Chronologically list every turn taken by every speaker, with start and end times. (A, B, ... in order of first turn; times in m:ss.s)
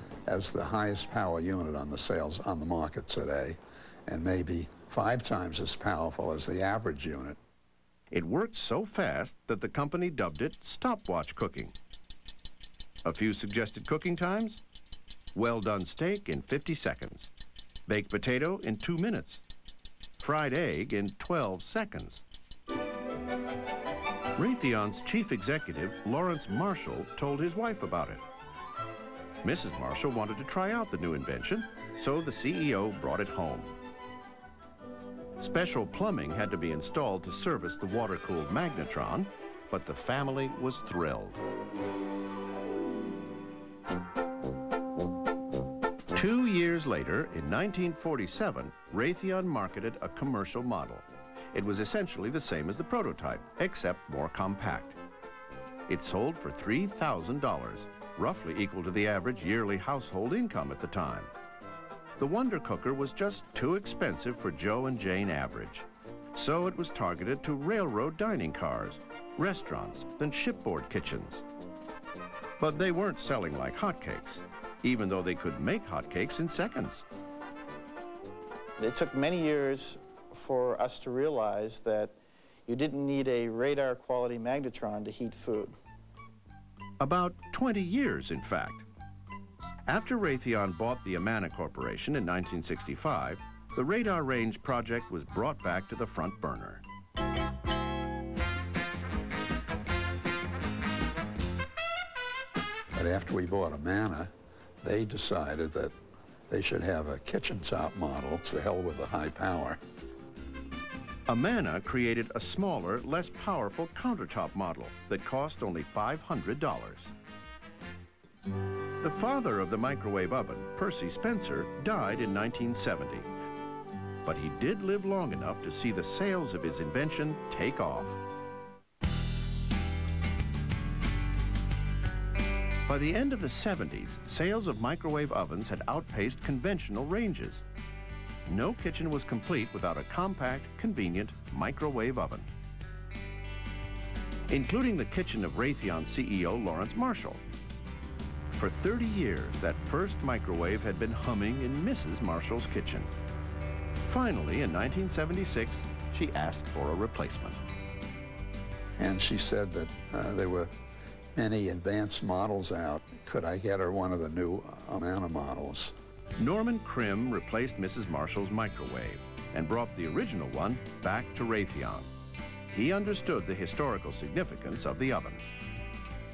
0:00.3-0:07.4 A
0:08.1-0:11.7 B
0:13.0-0:14.6 B
0:15.3-0:17.3 B
0:17.9-0:19.4 B
0:20.2-0:22.2 B
0:24.4-0:28.2 B
0:29.4-0:33.8 B
0:35.4-0:41.4 B
0:46.1-0:55.0 B
0:55.9-1:01.3 B
1:02.2-1:11.4 B
1:12.6-1:17.0 B
1:18.8-1:25.8 C
1:27.0-1:28.8 B
1:29.9-1:36.8 B
1:42.9-1:44.3 A
1:44.8-1:45.9 A
1:46.5-1:49.8 A
1:51.3-1:57.1 B
1:59.0-2:03.3 B
2:04.2-2:08.2 B
2:12.8-2:17.6 B
2:18.4-2:22.5 B
2:24.5-2:27.4 B
2:28.5-2:33.1 B
2:34.0-2:37.6 B
2:39.0-2:40.7 A
2:41.3-2:45.9 A
2:46.4-2:52.1 B
2:52.7-2:55.4 B